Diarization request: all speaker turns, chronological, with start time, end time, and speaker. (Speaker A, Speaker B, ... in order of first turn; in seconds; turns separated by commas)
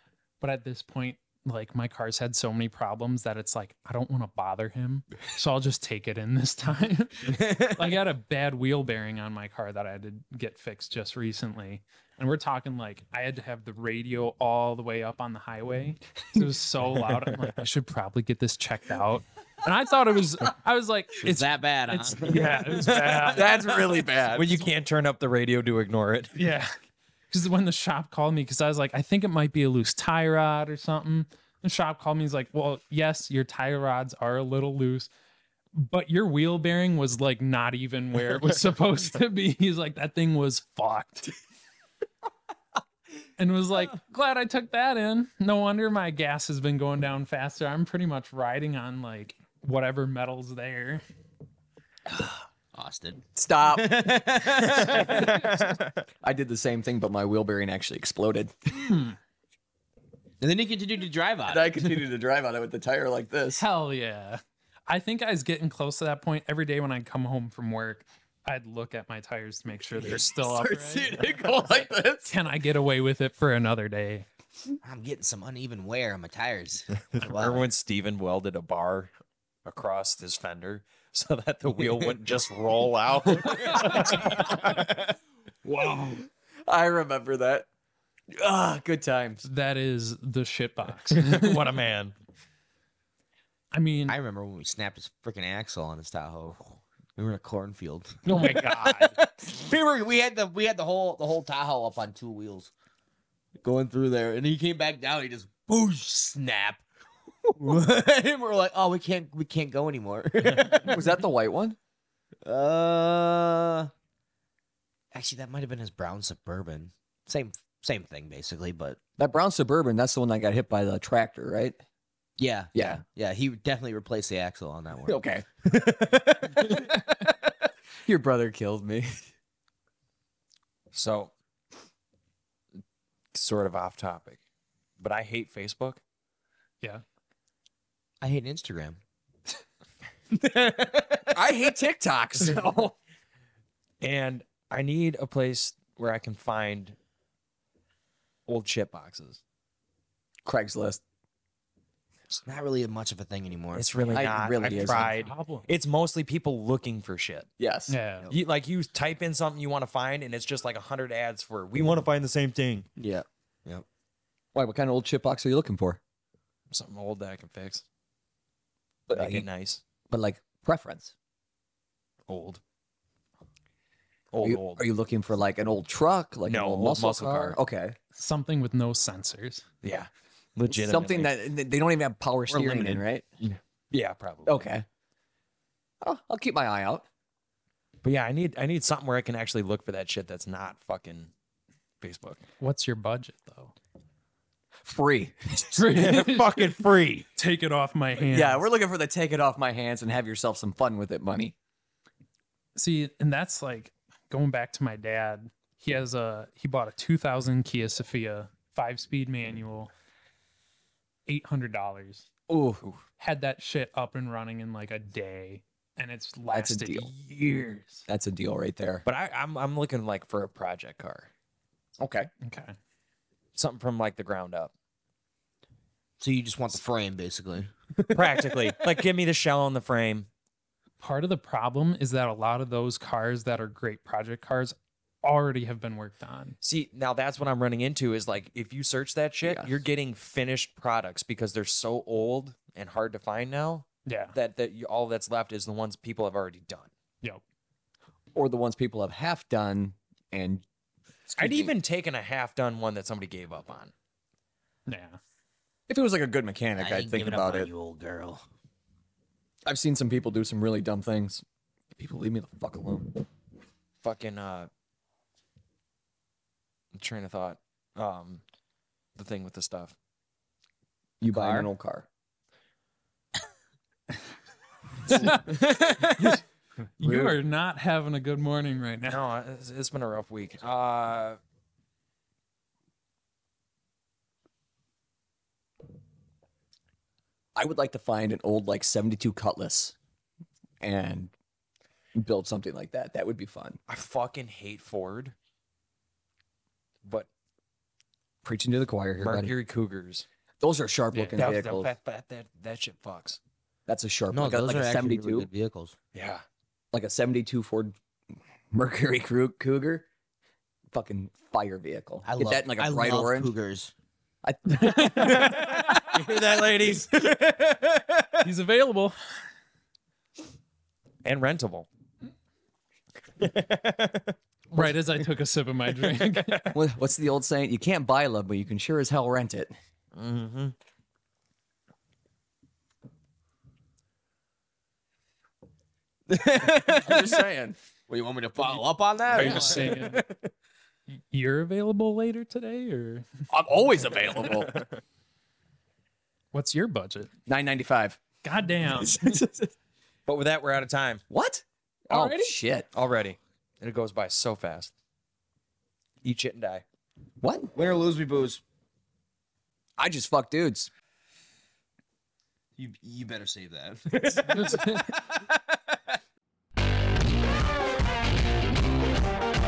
Speaker A: 0.4-23.6, Speaker B: 7.3-8.0, Speaker B: 21.2-22.6, Speaker C: 22.3-26.3, Speaker D: 23.2-24.6, Speaker A: 26.4-26.7, Speaker A: 27.3-35.1, Speaker A: 35.7-41.3, Speaker A: 43.4-51.0, Speaker B: 52.7-55.4, Speaker D: 53.4-54.1, Speaker C: 54.7-56.0, Speaker D: 54.9-55.6, Speaker D: 56.2-58.9, Speaker A: 58.8-59.1, Speaker B: 60.4-62.1, Speaker D: 61.5-63.6, Speaker A: 63.6-71.1, Speaker B: 70.0-71.3, Speaker D: 70.5-72.3, Speaker A: 72.2-74.3, Speaker B: 74.8-77.7, Speaker C: 77.1-79.1, Speaker C: 79.7-84.8, Speaker A: 83.6-83.9, Speaker D: 83.9-84.4, Speaker D: 85.7-87.7, Speaker D: 88.3-89.5, Speaker A: 89.5-91.7, Speaker C: 91.1-92.1, Speaker A: 93.7-94.2, Speaker B: 94.1-102.7, Speaker C: 98.3-99.2, Speaker B: 103.6-106.8, Speaker B: 107.5-111.2, Speaker D: 110.8-111.8, Speaker B: 112.4-113.9, Speaker B: 115.1-119.0, Speaker D: 119.2-121.8, Speaker B: 122.4-127.3, Speaker D: 122.7-123.0, Speaker D: 125.1-125.5, Speaker D: 126.6-126.9, Speaker D: 128.1-129.3, Speaker C: 130.9-131.3, Speaker C: 133.3-134.4, Speaker C: 135.0-136.0, Speaker B: 138.2-139.0, Speaker B: 140.3-141.5, Speaker D: 141.3-143.0, Speaker C: 144.0-147.0, Speaker C: 148.5-149.4, Speaker D: 150.5-151.0, Speaker B: 152.4-154.4, Speaker C: 153.7-157.5, Speaker D: 154.1-155.2, Speaker A: 154.6-155.7, Speaker D: 157.6-158.0, Speaker A: 157.9-158.3, Speaker C: 158.3-162.9, Speaker B: 163.0-163.9, Speaker D: 164.5-166.0, Speaker C: 166.7-167.8, Speaker D: 169.1-169.5, Speaker C: 169.1-169.8, Speaker D: 170.1-171.1, Speaker C: 172.3-172.6, Speaker C: 174.3-174.8, Speaker D: 174.4-178.0, Speaker C: 176.4-177.6, Speaker A: 178.2-179.7, Speaker C: 179.8-181.4, Speaker D: 180.7-183.3, Speaker C: 182.5-182.8, Speaker C: 183.4-184.7, Speaker D: 184.5-184.8, Speaker D: 186.0-187.1, Speaker C: 188.0-191.3, Speaker C: 192.0-192.4, Speaker A: 192.6-193.7, Speaker D: 194.8-195.8, Speaker A: 195.6-196.8, Speaker C: 195.9-197.3, Speaker A: 197.4-198.7, Speaker D: 198.2-201.6, Speaker A: 202.8-209.9, Speaker A: 211.3-212.3, Speaker D: 212.5-212.8, Speaker A: 213.2-218.1, Speaker D: 216.5-217.1, Speaker D: 218.1-219.1, Speaker C: 219.1-221.3, Speaker D: 222.0-222.3, Speaker A: 222.4-222.8, Speaker C: 223.6-224.7, Speaker B: 226.2-228.7, Speaker C: 228.1-230.3, Speaker A: 231.0-236.6, Speaker C: 236.6-246.9, Speaker D: 239.4-239.8, Speaker A: 244.1-244.3, Speaker D: 248.3-250.6, Speaker D: 251.3-251.7, Speaker C: 251.4-253.9, Speaker A: 254.9-255.2, Speaker D: 255.9-257.7, Speaker B: 256.8-258.4, Speaker D: 259.7-261.4, Speaker D: 262.0-263.1, Speaker C: 264.0-264.7, Speaker C: 266.9-268.4, Speaker C: 269.2-269.9, Speaker D: 271.2-272.1, Speaker B: 271.2-271.7, Speaker A: 275.1-276.4, Speaker D: 275.1-275.4, Speaker B: 275.5-276.1, Speaker A: 277.0-279.2, Speaker D: 277.0-277.4, Speaker C: 279.1-281.4, Speaker D: 287.6-289.9, Speaker D: 290.8-291.3, Speaker D: 292.1-293.8, Speaker C: 293.9-295.4, Speaker D: 298.4-299.5, Speaker C: 299.2-300.3, Speaker D: 300.6-301.9, Speaker A: 301.1-301.5, Speaker C: 301.4-303.4, Speaker D: 303.9-305.5, Speaker B: 304.3-306.0, Speaker C: 306.1-306.4, Speaker D: 306.9-307.9, Speaker D: 308.7-310.1, Speaker D: 310.9-313.5, Speaker B: 312.2-313.9, Speaker D: 314.4-315.7, Speaker A: 314.8-316.1, Speaker B: 315.4-318.5, Speaker C: 316.1-317.3, Speaker A: 318.4-319.2, Speaker C: 321.2-321.9, Speaker C: 323.4-324.4, Speaker A: 324.7-326.7, Speaker C: 326.1-326.7, Speaker D: 326.7-329.7, Speaker C: 330.1-330.8, Speaker B: 336.3-337.4, Speaker D: 336.7-337.8, Speaker B: 338.1-340.5, Speaker A: 339.3-340.2, Speaker A: 341.1-343.3, Speaker D: 343.5-344.8, Speaker C: 344.4-345.0, Speaker A: 346.5-347.3, Speaker D: 347.5-348.2, Speaker A: 348.4-349.3, Speaker D: 348.9-349.7, Speaker C: 350.3-351.2, Speaker D: 351.3-352.9, Speaker A: 352.1-352.6, Speaker C: 352.9-354.9, Speaker C: 356.2-356.8, Speaker D: 357.4-357.7, Speaker B: 357.8-358.6, Speaker D: 360.0-360.9, Speaker B: 362.8-366.0, Speaker A: 364.6-365.1